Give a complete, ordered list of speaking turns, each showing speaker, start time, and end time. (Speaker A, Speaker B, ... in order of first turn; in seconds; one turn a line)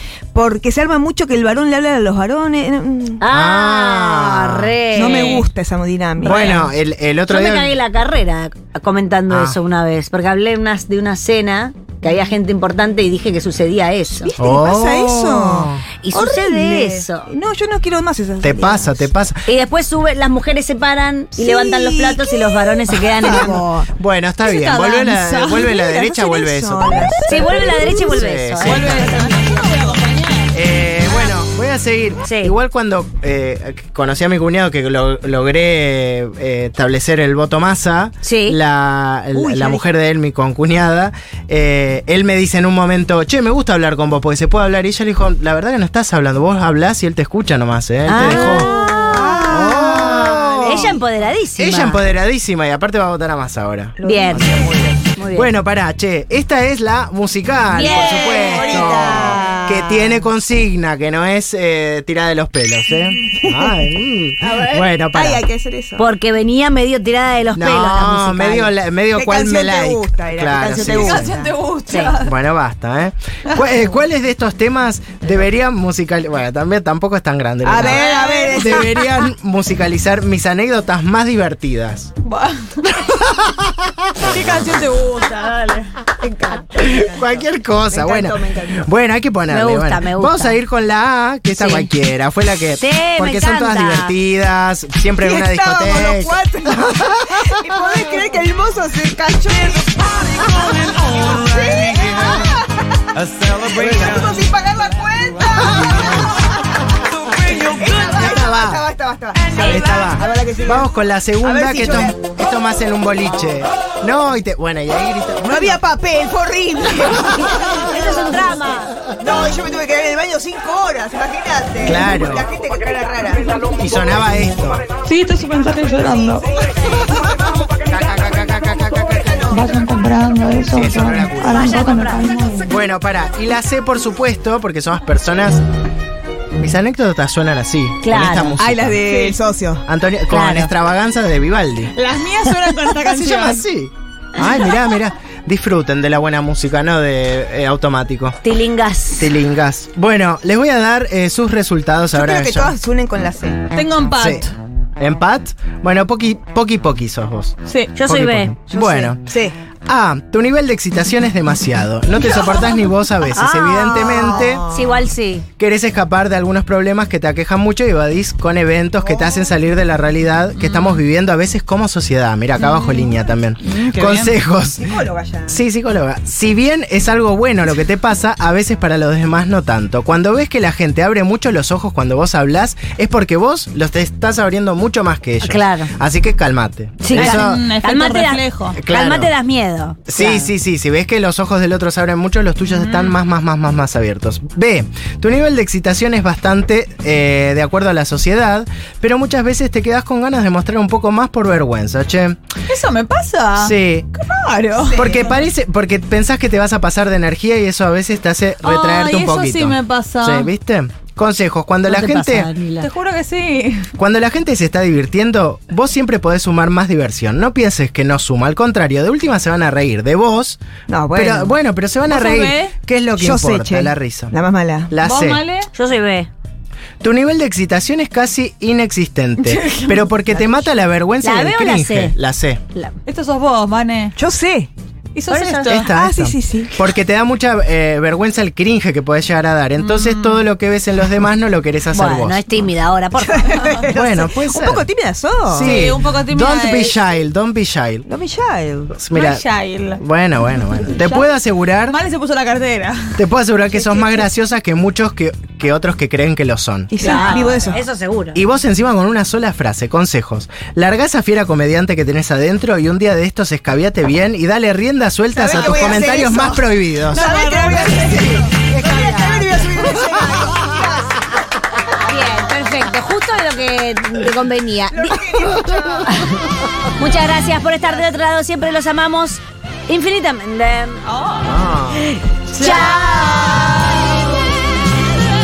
Speaker A: 0.3-3.2
Speaker B: 3.2-5.5
Speaker C: 3.3-4.8
Speaker A: 4.9-6.7
Speaker D: 5.1-5.4
Speaker B: 6.2-6.7
Speaker C: 6.2-7.8
Speaker B: 7.3-14.3
Speaker C: 9.3-9.6
Speaker A: 14.2-19.1
Speaker C: 14.4-15.8
Speaker B: 16.0-17.3
Speaker C: 18.4-19.4
Speaker B: 19.5-23.6
Speaker A: 21.4-22.4
Speaker A: 22.9-23.9
Speaker C: 24.0-29.3
Speaker D: 24.4-25.7
Speaker A: 25.6-28.1
Speaker B: 27.3-29.3
Speaker D: 28.6-30.5
Speaker A: 28.9-29.4
Speaker C: 30.5-48.7
Speaker B: 32.2-32.5
Speaker B: 38.2-38.6
Speaker A: 39.3-39.8
Speaker B: 48.1-49.6
Speaker A: 48.2-51.0
Speaker C: 49.5-51.0
Speaker B: 50.6-52.1
Speaker C: 51.6-65.4
Speaker A: 54.0-55.0
Speaker B: 54.0-54.5
Speaker B: 55.2-55.5
Speaker B: 57.7-60.3
Speaker A: 57.8-59.6
Speaker A: 63.4-63.7
Speaker A: 64.4-66.1
Speaker B: 66.0-68.7
Speaker C: 67.5-71.3
Speaker A: 69.1-71.5
Speaker D: 70.8-72.3
Speaker C: 72.2-78.0
Speaker A: 77.6-78.9
Speaker D: 77.8-78.9
Speaker C: 78.6-82.1
Speaker D: 82.2-83.1
Speaker C: 83.0-84.7
Speaker D: 84.2-86.0
Speaker A: 86.2-88.9
Speaker C: 86.8-97.5
Speaker B: 89.5-90.6
Speaker B: 91.5-91.9
Speaker B: 92.8-94.2
Speaker A: 95.2-103.0
Speaker C: 103.2-104.2
Speaker A: 103.6-110.9
Speaker C: 106.0-106.2
Speaker C: 107.8-108.8
Speaker B: 109.5-109.9
Speaker C: 109.7-115.8
Speaker A: 111.4-112.2
Speaker A: 115.4-117.8
Speaker B: 117.8-119.0
Speaker A: 119.2-123.5
Speaker C: 121.8-122.5
Speaker C: 123.6-124.8
Speaker E: 125.1-126.4
Speaker D: 125.9-126.2
Speaker A: 126.6-127.3
Speaker C: 127.8-129.7
Speaker A: 128.9-129.8
Speaker E: 129.5-132.6
Speaker C: 130.7-132.0
Speaker B: 131.4-132.4
Speaker C: 132.6-135.6
Speaker C: 136.6-139.0
Speaker B: 138.0-138.6
Speaker A: 138.6-139.8
Speaker D: 139.1-139.4
Speaker C: 139.9-141.9
Speaker B: 140.3-140.7
Speaker D: 141.9-143.6
Speaker C: 143.0-148.4
Speaker B: 148.4-149.3
Speaker C: 149.2-152.8
Speaker A: 152.1-153.6
Speaker D: 153.7-154.5
Speaker C: 154.1-154.5
Speaker C: 155.0-157.6
Speaker D: 157.7-157.9
Speaker B: 157.9-158.5
Speaker C: 158.1-159.3
Speaker A: 158.7-159.6
Speaker C: 159.9-164.6
Speaker A: 162.2-162.5
Speaker B: 163.3-165.5
Speaker A: 163.9-165.1
Speaker C: 165.6-174.9
Speaker A: 169.0-169.6
Speaker D: 170.6-171.0
Speaker D: 172.6-174.3
Speaker A: 174.8-175.6
Speaker C: 175.5-187.7
Speaker B: 185.4-185.9
Speaker B: 187.0-190.5
Speaker D: 187.1-188.8
Speaker C: 188.8-189.3
Speaker C: 190.1-202.4
Speaker D: 192.6-193.2
Speaker D: 202.7-205.3
Speaker C: 203.6-204.1
Speaker C: 204.9-212.5
Speaker D: 208.6-210.5
Speaker B: 211.8-212.9
Speaker D: 212.8-213.9
Speaker C: 214.0-220.6
Speaker A: 220.9-221.6
Speaker C: 221.1-224.4
Speaker D: 222.1-222.8
Speaker A: 223.2-224.9
Speaker C: 224.9-225.4
Speaker D: 225.0-225.7
Speaker B: 225.7-226.3
Speaker C: 227.0-232.6
Speaker D: 229.4-230.0
Speaker A: 230.2-230.8
Speaker B: 231.2-232.2
Speaker D: 233.1-234.2
Speaker A: 234.2-234.7
Speaker D: 235.1-235.9
Speaker C: 235.3-242.4
Speaker B: 235.3-235.7
Speaker A: 235.8-236.8
Speaker D: 239.8-240.4
Speaker B: 241.9-243.7
Speaker A: 243.2-245.8
Speaker C: 243.9-244.9
Speaker C: 245.5-248.1
Speaker D: 245.5-247.0
Speaker A: 248.1-248.9
Speaker C: 248.9-249.4
Speaker D: 249.1-250.0
Speaker C: 250.0-252.0
Speaker D: 250.8-251.3
Speaker D: 251.8-253.2
Speaker C: 253.2-257.0
Speaker A: 253.7-254.2
Speaker A: 256.9-257.8
Speaker B: 257.0-258.4
Speaker D: 257.1-257.5
Speaker C: 258.3-267.3
Speaker A: 265.3-271.3
Speaker D: 265.5-266.1
Speaker D: 267.1-268.4
Speaker C: 268.1-270.8
Speaker B: 272.0-275.2
Speaker A: 274.9-276.2
Speaker B: 276.1-276.4
Speaker B: 277.0-281.0
Speaker D: 281.1-281.5
Speaker C: 281.4-282.2
Speaker B: 282.5-283.7